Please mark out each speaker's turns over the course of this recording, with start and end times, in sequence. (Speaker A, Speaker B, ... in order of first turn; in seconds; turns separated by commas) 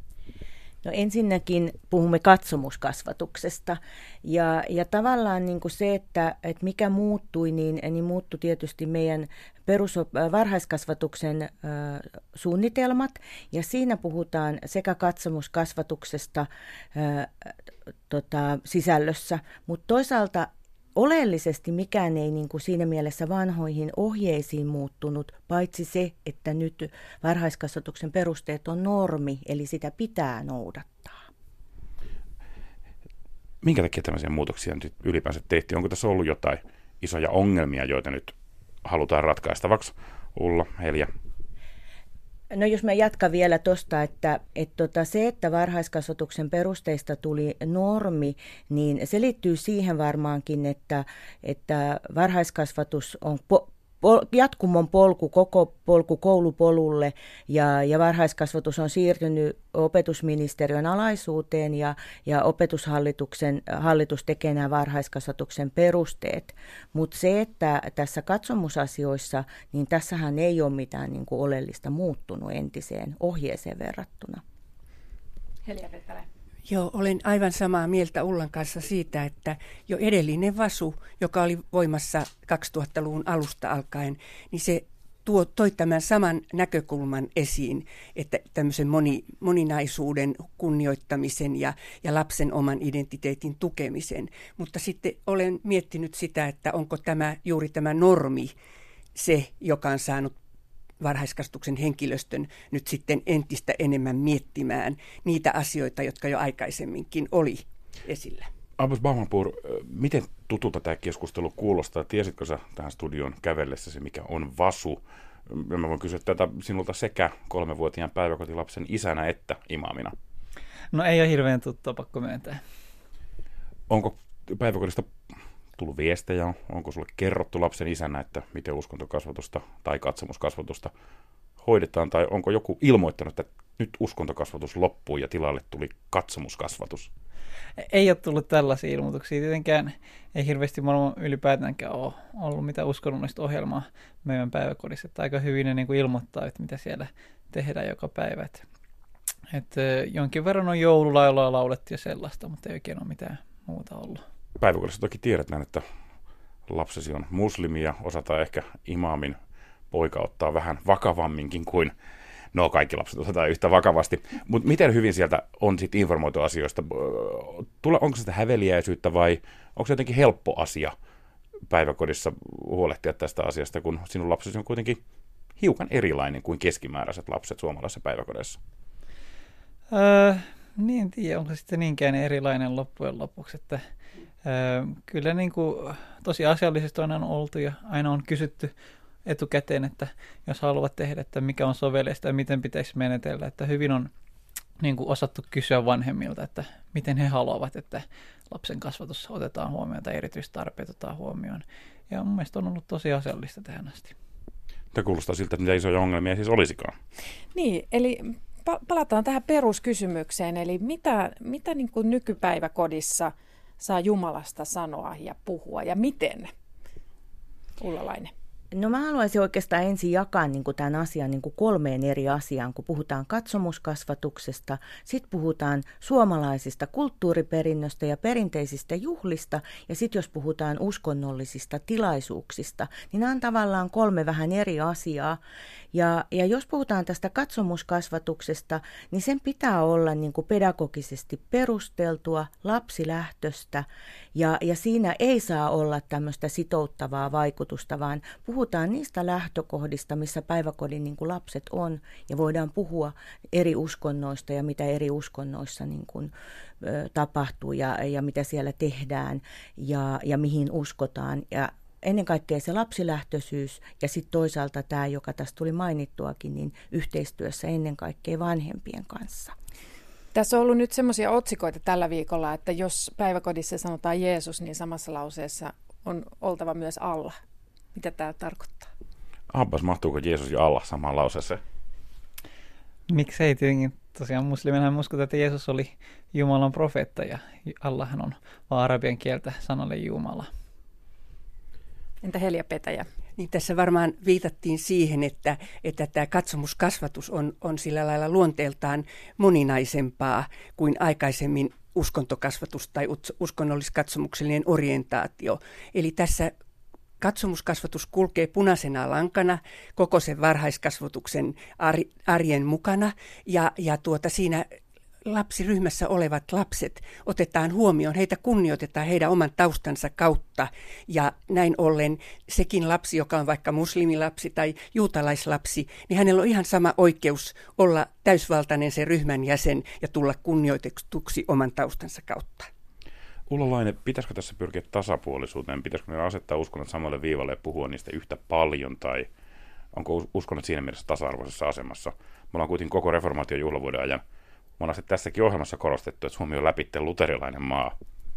Speaker A: 0.8-17.5, Speaker A: 18.1-31.2, Speaker B: 33.6-41.1, Speaker A: 42.5-74.4, Speaker C: 75.6-76.2, Speaker D: 76.7-98.5, Speaker D: 99.1-100.3, Speaker D: 101.0-108.5, Speaker B: 108.8-120.1, Speaker E: 120.9-122.6, Speaker B: 123.9-125.1, Speaker B: 125.8-130.9, Speaker B: 131.6-137.1, Speaker E: 137.8-148.6, Speaker E: 149.5-154.2, Speaker B: 154.6-155.8, Speaker B: 156.7-159.4, Speaker B: 159.9-161.9, Speaker B: 162.5-170.9, Speaker B: 171.7-175.0, Speaker B: 175.6-178.6, Speaker E: 179.9-183.8, Speaker E: 184.4-188.7, Speaker E: 189.2-194.1, Speaker E: 194.8-204.1, Speaker B: 204.9-206.9, Speaker C: 207.5-216.5, Speaker C: 217.8-218.3, Speaker A: 218.7-235.4, Speaker A: 235.9-269.5, Speaker C: 270.3-277.4, Speaker C: 277.9-278.9, Speaker B: 279.5-281.6, Speaker E: 283.1-290.5, Speaker C: 292.2-293.1, Speaker D: 293.4-306.5, Speaker D: 307.2-314.7, Speaker D: 315.2-332.7, Speaker B: 333.5-339.3, Speaker B: 339.9-344.2, Speaker B: 344.8-347.9